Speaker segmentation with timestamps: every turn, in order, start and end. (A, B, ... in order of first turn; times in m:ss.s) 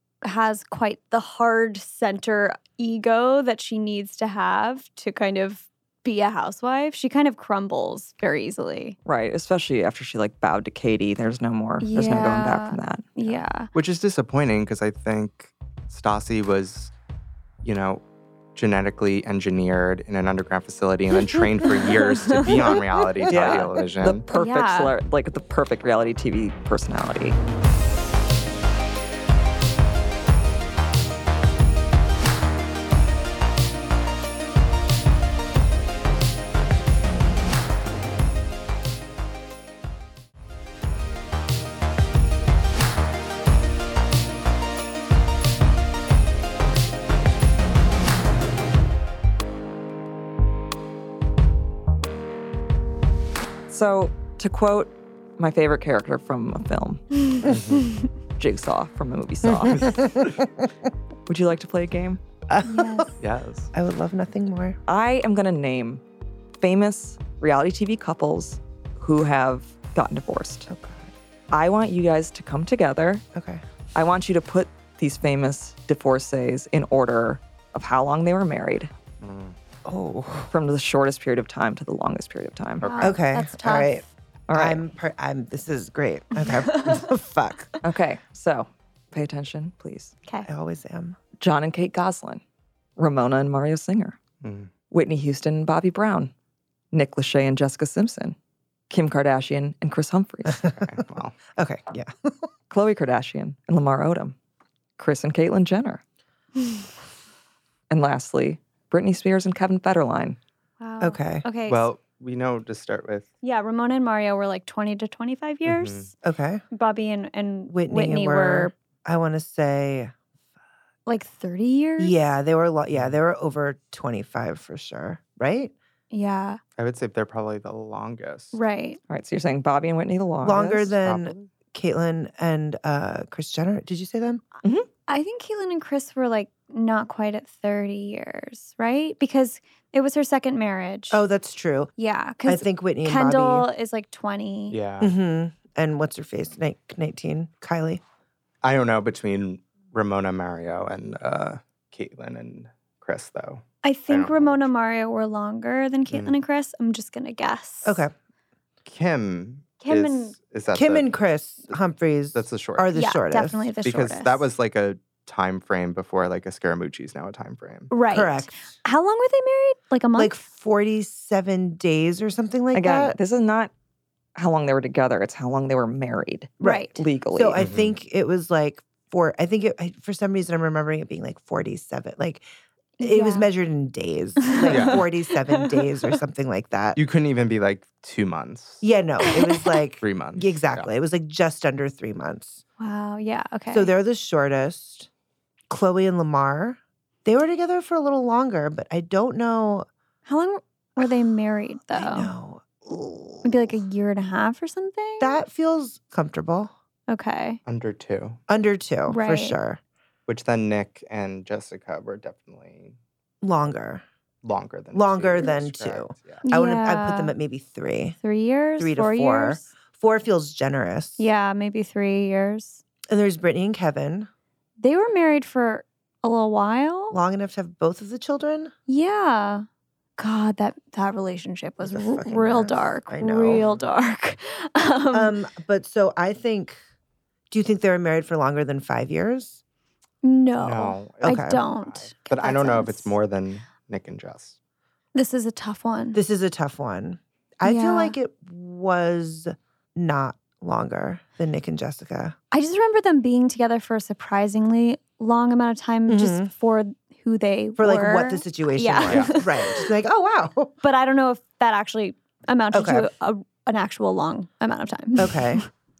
0:00.2-0:09.0 A
0:09.1-0:13.2 B
0:11.8-0:13.7 A
0:13.7-0:16.9 C
0:17.6-0:18.0 C
0:18.6-0:24.2 C
0:21.8-0:22.8 A
0:23.3-0:27.4 B
0:24.3-0:24.9 A
0:53.7-0:57.0 B
0:57.4-0:57.9 C
0:58.4-1:00.0 B
0:59.5-1:00.7 D
1:01.3-1:02.2 B
1:02.5-1:03.1 D
1:02.7-1:03.1 A
1:03.2-1:03.7 C
1:03.7-1:04.8 D
1:04.9-1:06.0 B
1:06.6-1:10.7 B
1:10.7-1:11.1 D
1:11.5-1:13.2 B
1:13.4-1:13.6 D
1:14.0-1:18.9 B
1:19.2-1:19.6 C
1:19.8-1:20.5 D
1:20.5-1:22.8 B
1:22.8-1:23.2 C
1:22.8-1:24.0 A
1:23.0-1:27.7 D
1:24.5-1:24.9 B
1:26.4-1:27.0 A
1:27.8-1:30.1 B
1:30.4-1:31.2 D
1:31.4-1:32.4 B
1:33.0-1:34.2 B
1:34.4-1:34.7 C
1:34.9-1:36.3 B
1:36.9-1:38.4 B
1:38.9-1:40.7 B
1:40.6-1:41.4 C
1:41.6-1:42.5 D
1:42.7-1:44.4 B
1:45.0-1:46.0 B
1:47.9-1:50.4 B
1:50.8-1:51.9 A
1:51.0-1:51.4 D
1:51.7-1:53.3 C
1:53.4-1:56.1 A
1:55.7-1:56.1 C
1:56.2-1:56.6 D
1:56.7-1:58.7 A
1:57.7-2:00.1 D
2:01.1-2:02.2 A
2:02.0-2:05.7 D
2:06.1-2:06.6 A
2:06.8-2:08.6 C
2:08.5-2:09.0 A
2:09.1-2:10.9 B
2:10.4-2:14.4 D
2:11.0-2:11.5 C
2:15.1-2:21.2 A
2:21.1-2:21.9 D
2:22.0-2:24.8 A
2:22.5-2:23.7 D
2:24.7-2:25.1 C
2:25.0-2:28.0 D
2:28.6-2:34.7 C
2:33.8-2:38.0 A
2:36.1-2:36.4 C
2:37.8-2:38.1 D
2:38.8-2:41.1 C
2:39.8-2:40.4 A
2:40.7-2:43.7 D
2:42.4-2:42.9 C
2:42.9-2:44.4 A
2:43.8-2:47.9 C
2:47.9-2:50.4 A
2:48.1-2:48.7 D
2:50.1-2:53.2 D
2:52.7-2:53.7 B
2:54.4-2:57.7 B
2:56.6-3:02.4 D
2:56.6-2:57.0 A
2:57.6-2:57.9 C
3:03.0-3:03.5 A
3:03.0-3:07.0 D
3:04.4-3:06.2 A
3:04.7-3:05.0 C
3:07.0-3:08.8 C
3:08.8-3:12.6 D
3:09.3-3:09.8 A
3:10.0-3:10.9 C
3:12.8-3:13.9 A
3:13.7-3:15.1 D
3:15.7-3:19.9 D
3:20.3-3:22.3 A
3:21.9-3:23.8 D
3:23.4-3:25.4 A
3:25.2-3:26.7 D
3:27.1-3:27.6 A
3:27.7-3:28.4 C
3:28.5-3:29.8 D
3:29.1-3:29.6 A
3:30.3-3:33.0 C
3:33.4-3:34.0 D
3:34.4-3:36.4 C
3:34.9-3:38.2 D
3:36.4-3:37.3 A
3:38.2-3:39.7 A
3:38.8-3:41.2 D
3:41.2-3:42.8 A
3:43.1-3:44.3 D
3:44.8-3:47.2 A
3:47.1-3:48.7 D
3:48.9-3:49.7 A
3:50.2-3:55.4 A
3:51.8-3:53.7 D
3:55.1-3:56.8 D
3:57.5-3:59.6 D
4:00.2-4:03.1 A
4:00.6-4:04.6 C
4:01.2-4:01.6 D
4:05.2-4:06.2 A
4:06.1-4:12.4 D
4:07.6-4:08.2 A
4:12.5-4:19.9 A
4:16.1-4:16.5 D
4:17.8-4:20.8 D
4:19.1-4:19.3 C
4:20.8-4:25.7 A
4:22.7-4:23.1 D
4:25.2-4:25.6 D